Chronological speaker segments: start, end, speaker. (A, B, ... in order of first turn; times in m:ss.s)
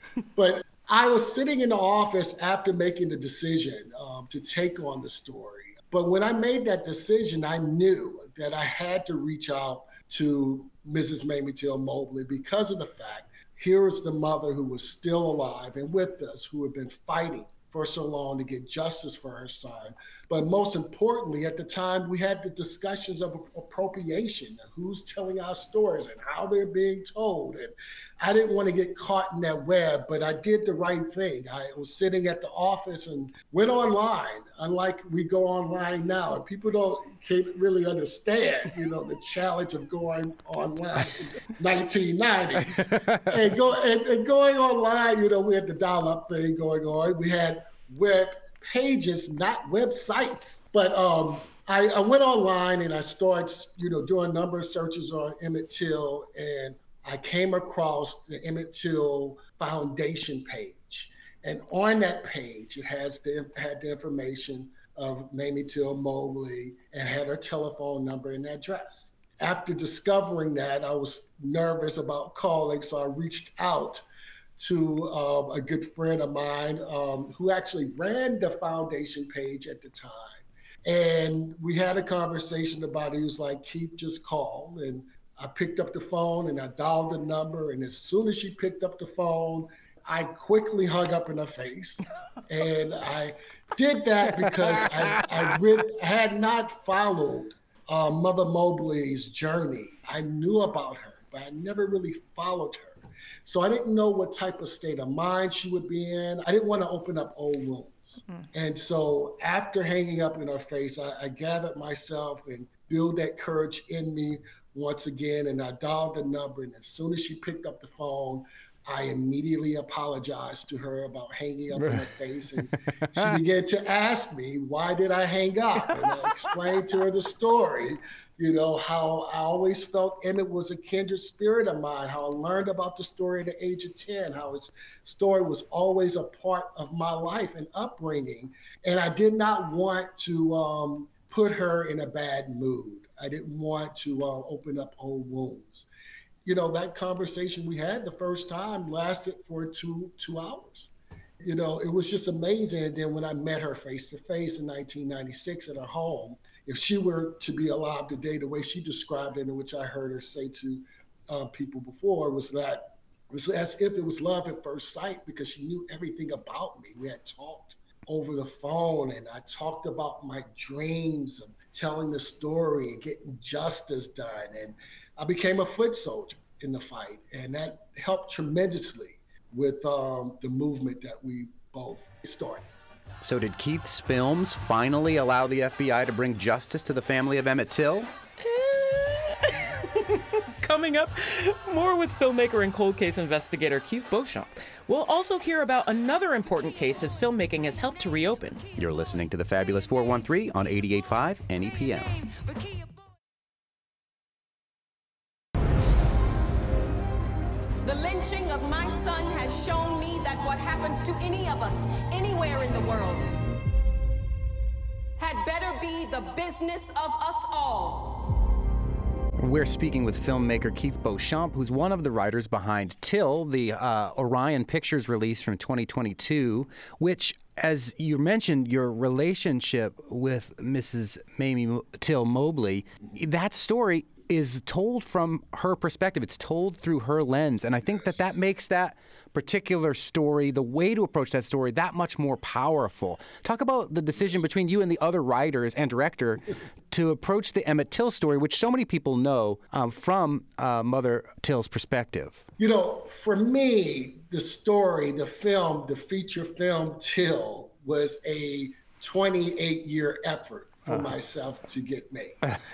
0:00.4-1:14.0 A
0:42.8-0:43.3 B
1:14.6-2:25.9 A
2:01.8-2:02.1 B
2:02.6-2:03.4 B
2:26.4-3:02.6 A
3:03.2-3:08.1 B
3:08.4-3:18.6 C
3:18.8-3:22.2 B
3:27.8-3:33.3 D
3:35.2-3:38.3 D
3:39.4-4:12.4 B
4:12.6-4:22.6 A